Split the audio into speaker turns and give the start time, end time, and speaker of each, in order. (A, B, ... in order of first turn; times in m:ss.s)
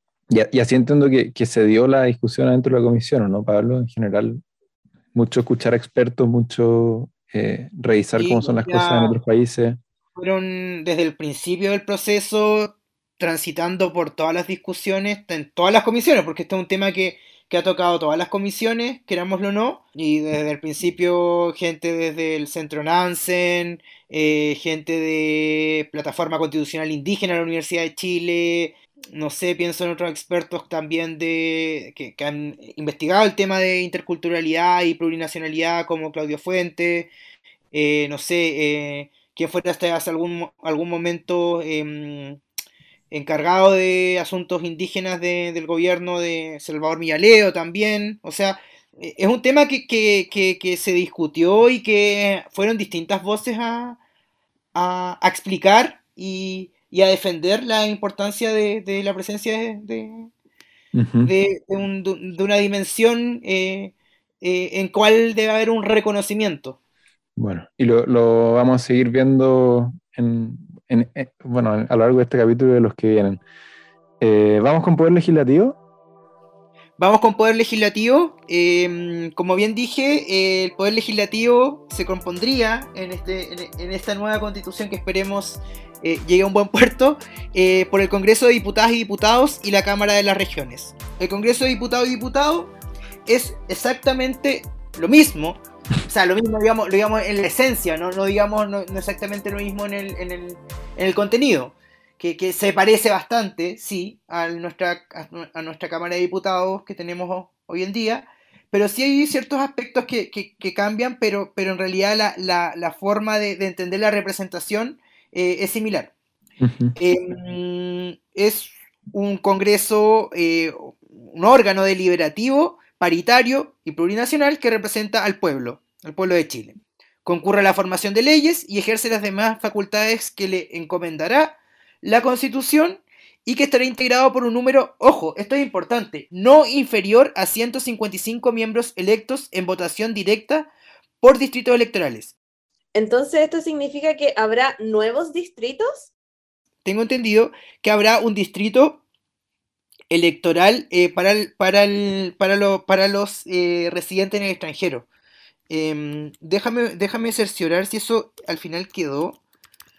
0:00.3-0:04.4 A
0:05.1-0:09.8 A
0:08.2-0:09.2 B
0:10.2-0:37.1 B
0:37.7-0:42.4 B
0:43.1-0:54.0 B
0:54.8-1:00.3 B
1:00.9-1:01.3 A
1:01.2-1:06.8 B
1:07.4-1:13.4 A
1:14.2-1:15.8 A
1:17.0-1:32.7 B
1:33.3-1:56.1 B
1:56.6-1:57.0 A
1:57.0-2:20.7 B
2:21.2-2:22.4 B
2:23.0-2:26.1 C
2:26.8-2:29.0 B
2:30.1-2:35.1 B
2:35.7-2:39.4 B